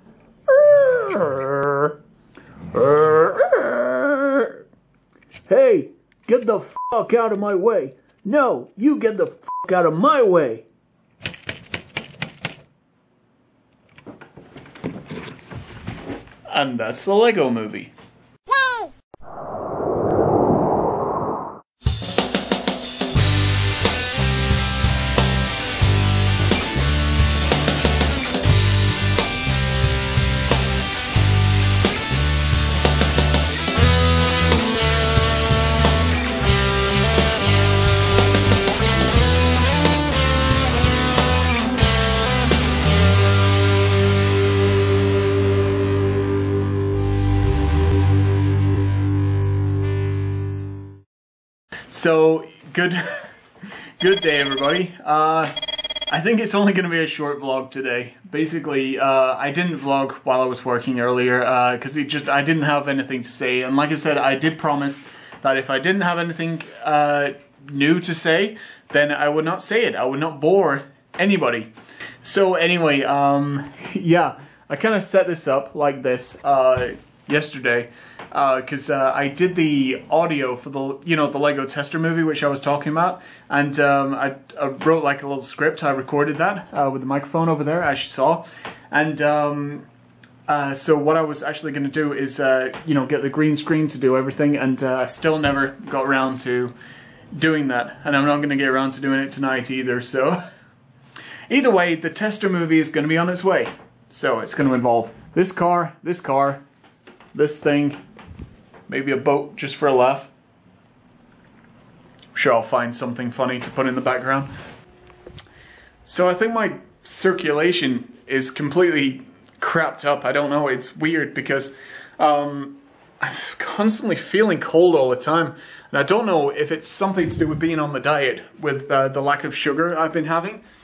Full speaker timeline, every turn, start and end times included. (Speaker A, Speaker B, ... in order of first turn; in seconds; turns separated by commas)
Speaker A: 0.5-1.9, Speaker A: 2.7-4.6, Speaker A: 5.5-10.7, Speaker A: 16.5-17.9, Speaker A: 51.9-53.2, Speaker A: 54.0-55.5, Speaker A: 56.1-71.7, Speaker A: 72.2-89.9, Speaker A: 90.5-96.8, Speaker A: 97.3-100.4, Speaker A: 101.5-106.6, Speaker A: 107.3-108.0, Speaker A: 108.9-110.3, Speaker A: 112.3-114.5, Speaker A: 116.0-130.6